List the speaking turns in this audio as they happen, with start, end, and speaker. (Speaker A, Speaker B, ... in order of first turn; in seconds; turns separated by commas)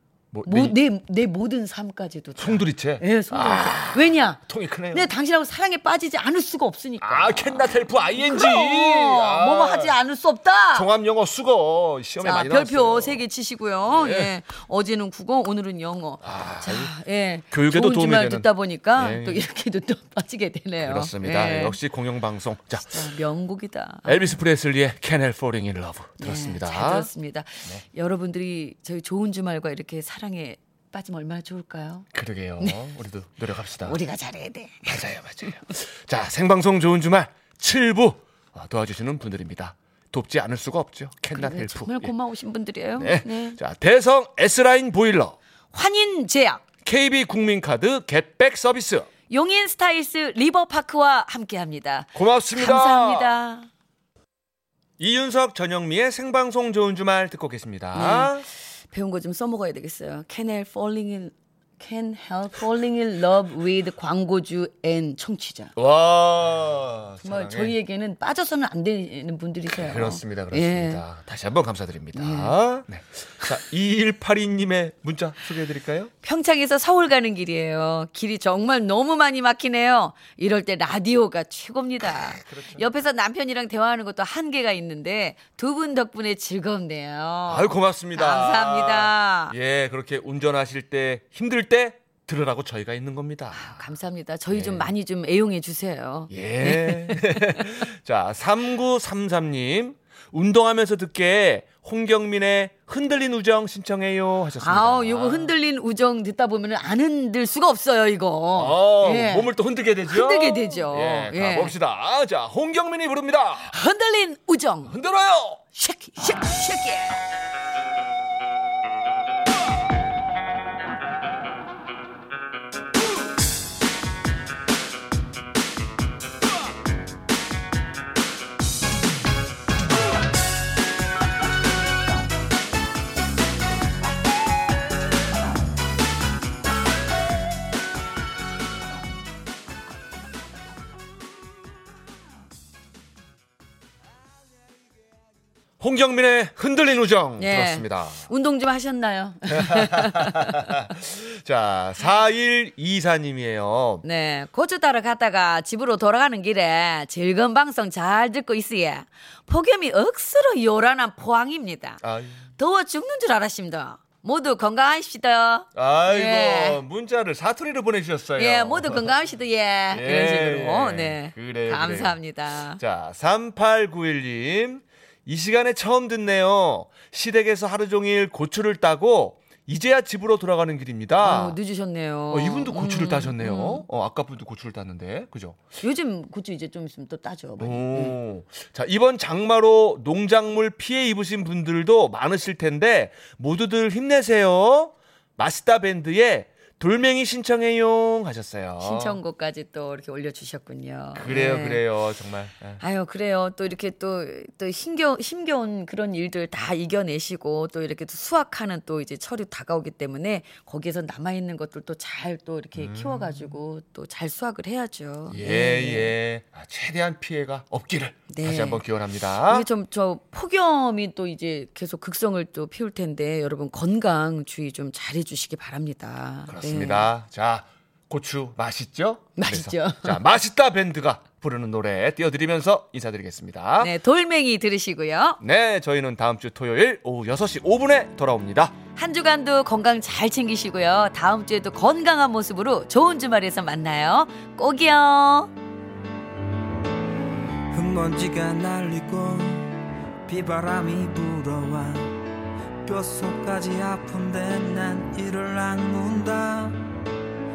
Speaker A: 0.3-0.8, Speaker B: 0.4-10.9, Speaker A: 2.4-5.1, Speaker A: 7.0-10.0, Speaker A: 10.7-13.2, Speaker B: 12.2-21.8, Speaker A: 13.9-14.3, Speaker A: 16.2-16.9, Speaker A: 17.5-19.4, Speaker A: 20.8-23.0, Speaker B: 22.9-24.4, Speaker A: 24.0-27.1, Speaker B: 26.2-32.0, Speaker A: 32.1-34.0, Speaker B: 33.8-35.1, Speaker A: 34.9-42.1, Speaker B: 41.3-43.6, Speaker A: 43.0-45.4, Speaker B: 45.7-46.6, Speaker A: 46.8-49.1, Speaker B: 49.3-53.7, Speaker A: 52.1-53.3, Speaker A: 55.0-58.5, Speaker B: 57.9-65.7, Speaker A: 65.8-67.8, Speaker B: 67.2-71.0, Speaker A: 69.7-76.1, Speaker B: 72.1-72.6, Speaker B: 76.2-89.5, Speaker A: 82.0-82.9, Speaker A: 87.5-93.9, Speaker B: 93.5-97.8, Speaker A: 94.5-94.9, Speaker A: 96.3-105.5, Speaker B: 104.6-109.5, Speaker A: 108.5-113.7, Speaker B: 110.1-111.7, Speaker B: 113.6-114.9, Speaker A: 114.9-115.6, Speaker B: 115.7-117.2, Speaker A: 145.8-148.3, Speaker B: 147.4-150.8, Speaker A: 149.5-154.0, Speaker B: 154.0-162.0, Speaker A: 162.0-162.4, Speaker B: 162.6-166.8, Speaker A: 165.7-169.1, Speaker B: 168.3-172.8, Speaker A: 169.9-181.6, Speaker B: 181.2-183.8, Speaker A: 182.3-185.6, Speaker B: 185.8-188.2, Speaker A: 187.6-199.2, Speaker B: 198.8-201.9, Speaker A: 201.1-202.8, Speaker B: 202.8-216.1, Speaker A: 212.8-213.4, Speaker A: 215.3-219.7, Speaker B: 218.3-218.8, Speaker B: 219.4-227.1, Speaker A: 226.5-233.9, Speaker B: 229.4-230.2, Speaker B: 233.8-235.4, Speaker A: 235.4-238.7, Speaker B: 238.9-245.5, Speaker C: 247.7-252.2, Speaker C: 252.8-256.9